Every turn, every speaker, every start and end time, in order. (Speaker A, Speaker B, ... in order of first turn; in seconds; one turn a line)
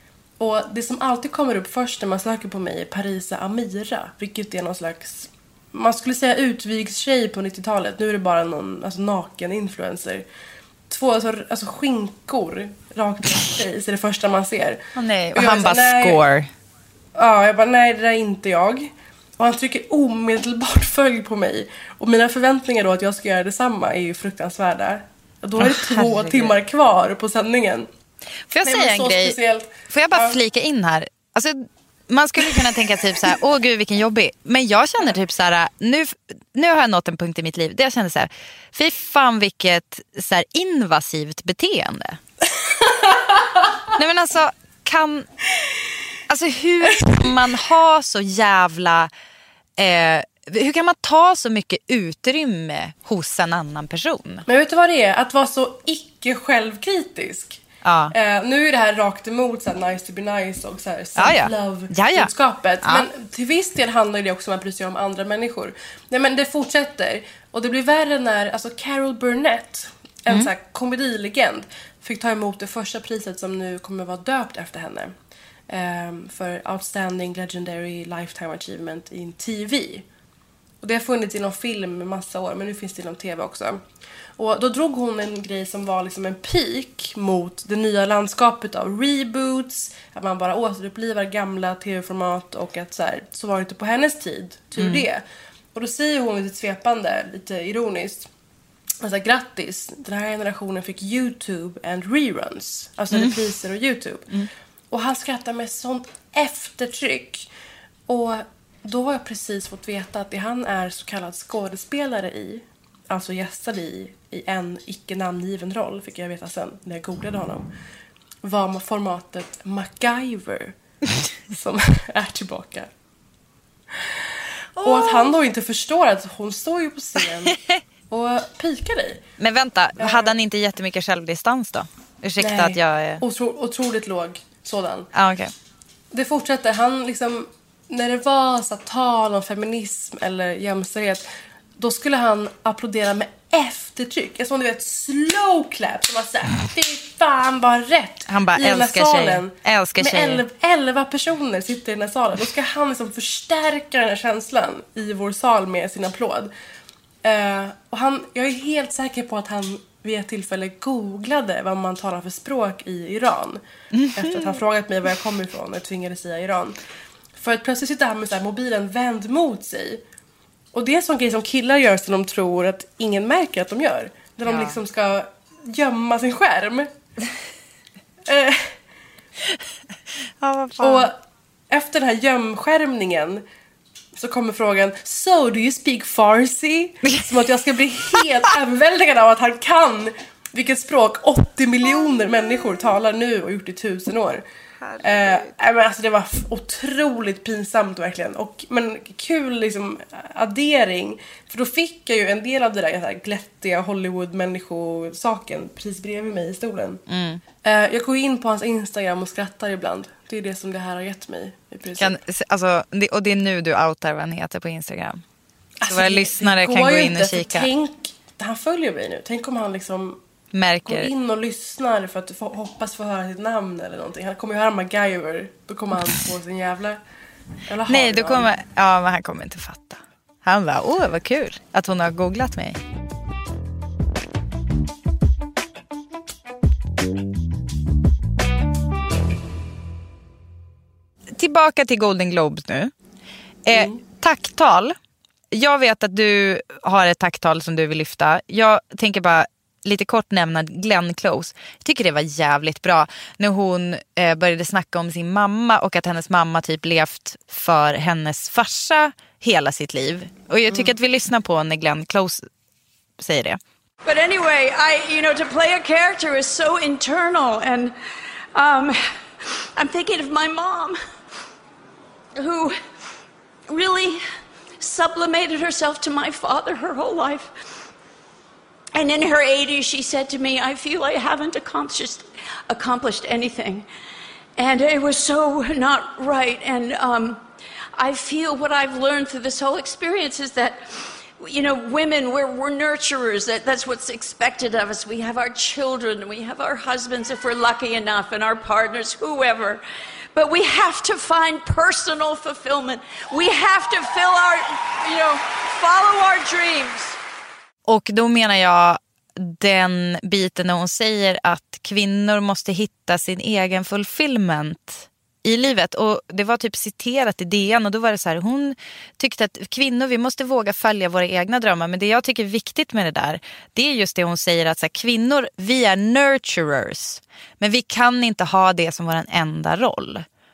Speaker A: 0.4-10.2
Speaker A: 10.9-14.8
Speaker B: 14.9-16.5
Speaker A: 15.3-16.2
Speaker A: 17.1-27.9
Speaker B: 25.6-26.5
Speaker B: 28.5-29.4
Speaker A: 28.6-30.4
Speaker B: 29.9-42.2
Speaker A: 42.8-43.4
Speaker B: 43.9-45.3
Speaker B: 46.3-49.1
Speaker B: 49.8-54.4
Speaker A: 54.5-75.1
Speaker B: 57.8-58.1
Speaker B: 61.2-62.3
Speaker A: 75.7-80.0
Speaker A: 80.8-83.8
Speaker A: 84.4-95.2
Speaker B: 94.8-95.0
Speaker A: 95.7-98.3
Speaker A: 99.0-104.3
Speaker A: 104.9-107.5
Speaker A: 108.1-117.7
Speaker A: 118.4-120.7
Speaker A: 121.5-122.9
Speaker A: 123.9-124.2
Speaker B: 124.8-125.3
Speaker A: 124.8-127.5
Speaker A: 128.1-129.2
Speaker B: 129.4-133.2
Speaker A: 130.0-130.3
Speaker A: 132.4-135.1
Speaker B: 135.1-135.5
Speaker A: 136.1-156.5
Speaker B: 148.3-150.4
Speaker A: 157.2-163.6
Speaker B: 163.9-164.6
Speaker A: 164.2-166.8
Speaker A: 167.4-170.0
Speaker A: 170.7-176.9
Speaker B: 174.5-174.8
Speaker A: 178.3-178.7
Speaker B: 180.4-181.1
Speaker A: 180.8-181.1
Speaker A: 181.7-183.4
Speaker A: 184.2-194.4
Speaker B: 194.9-195.5
Speaker A: 195.0-207.0
Speaker B: 207.1-207.4
Speaker A: 207.6-212.1
Speaker B: 212.0-215.2
Speaker A: 215.8-220.2
Speaker B: 215.9-217.7
Speaker B: 220.5-221.1
Speaker A: 220.8-227.0
Speaker A: 227.7-228.5
Speaker B: 227.9-232.8
Speaker B: 241.3-242.9
Speaker B: 243.7-244.9
Speaker A: 243.7-244.0
Speaker B: 245.5-262.4
Speaker B: 263.2-263.6
Speaker C: 264.0-267.9
Speaker C: 268.5-269.0
Speaker C: 269.8-271.0
Speaker C: 272.4-272.7
Speaker C: 273.7-274.2
Speaker C: 274.8-277.5
Speaker C: 278.9-283.9
Speaker C: 284.6-287.4
Speaker C: 287.9-299.8
Speaker C: 300.3-307.2
Speaker B: 307.9-330.2